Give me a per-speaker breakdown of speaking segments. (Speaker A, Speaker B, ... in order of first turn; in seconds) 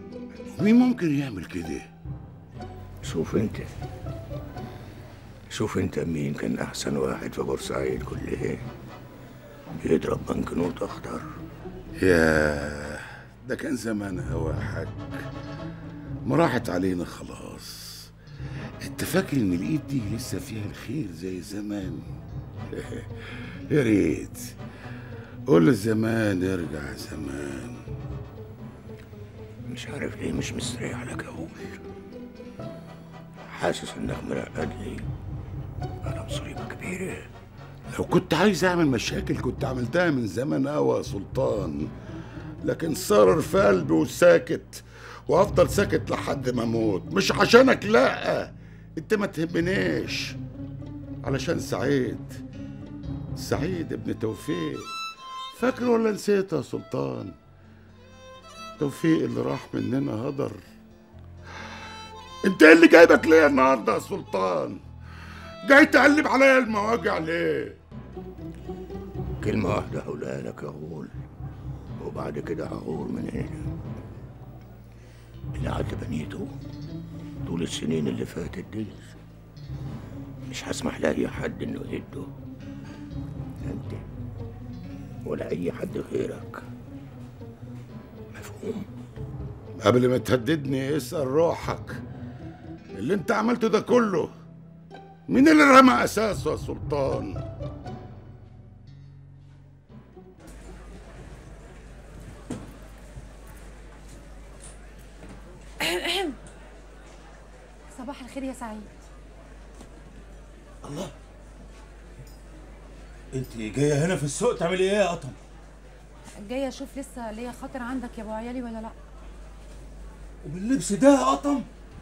Speaker A: 0.5-1.8, 12.0-15.2, 16.2-18.1, 18.8-22.0, 22.8-23.1, 23.7-24.5, 25.5-27.8, 38.0-41.9, 42.6-50.4, 51.2-52.4, 53.4-54.9, 55.5-57.3, 58.8-60.6, 62.4-64.8, 65.6-67.8, 89.8-91.9, 93.0-94.3, 95.3-97.4
Speaker B: 3.0-3.7, 5.5-8.6, 9.7-11.3, 29.7-31.8, 33.5-35.0, 36.0-37.3, 69.4-71.1, 72.0-73.7, 75.6-76.5, 77.4-79.1, 80.5-82.3, 83.6-84.0, 85.2-86.6, 88.3-88.9
Speaker C: 105.8-106.3, 107.9-108.9, 116.4-118.9
Speaker D: 110.8-111.1, 113.3-115.4, 120.4-121.7